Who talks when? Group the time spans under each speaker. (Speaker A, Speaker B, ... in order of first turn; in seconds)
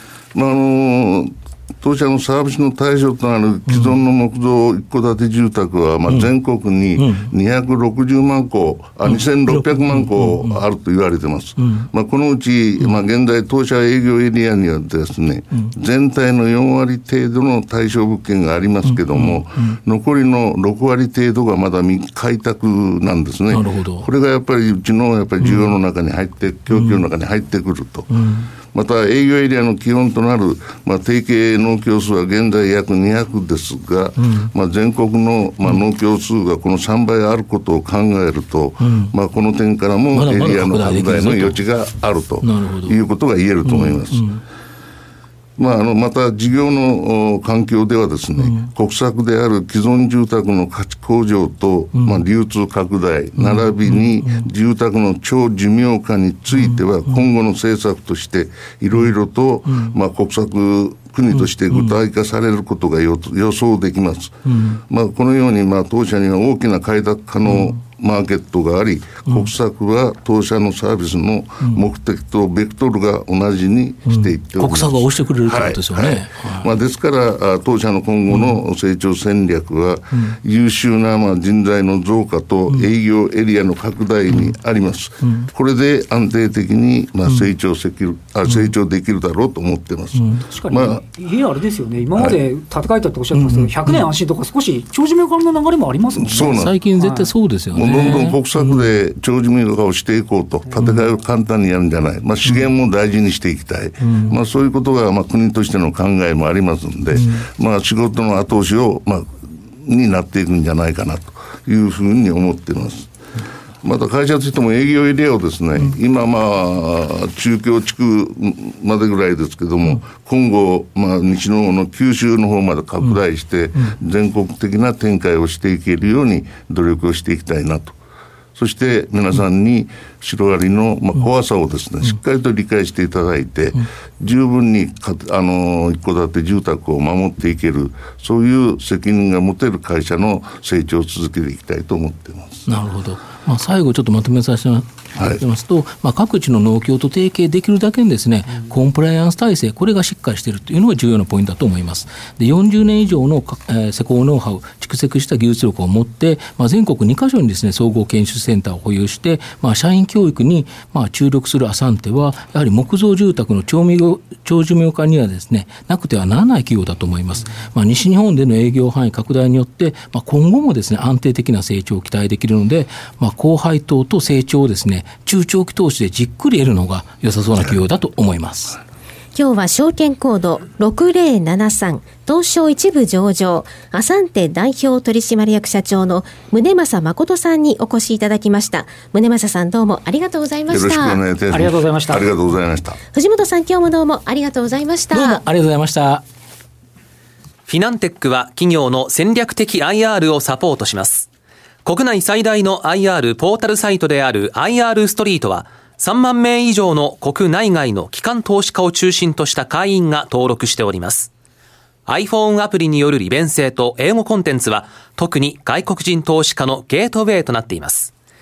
Speaker A: 0.3-28.1, 28.7-44.2, 45.6-64.3, 64.9-91.0, 96.2-96.7, 97.7-113.1, 113.8-127.9, 128.6-142.7, 145.2-145.4, 190.7-193.0
Speaker B: 3.7-4.0, 6.1-6.3, 6.9-7.3, 9.0-10.6, 11.6-11.9, 18.8-19.8, 23.5-24.1, 25.4-25.8, 26.7-27.0, 28.1-28.5, 34.2-34.5, 38.8-39.1, 40.1-41.6, 42.4-43.0, 43.6-44.4, 48.4-48.7, 51.9-52.2, 53.4-54.5, 56.5-57.2, 59.7-60.0, 61.3-62.0, 64.5-64.8, 67.4-67.8, 74.0-76.7, 78.3-78.6, 84.3-84.5, 85.2-85.5, 87.2-87.5, 88.5-88.7, 90.1-90.5, 93.3-94.1, 96.4-99.0, 100.8-101.0, 104.0-104.4, 107.1-107.5, 142.7-178.8, 195.1-196.2
Speaker C: 90.5-97.3, 191.5-192.3
Speaker D: 179.3-191.2, 193.1-195.4
Speaker E: 197.7-201.3, 201.8-211.3, 212.1-218.1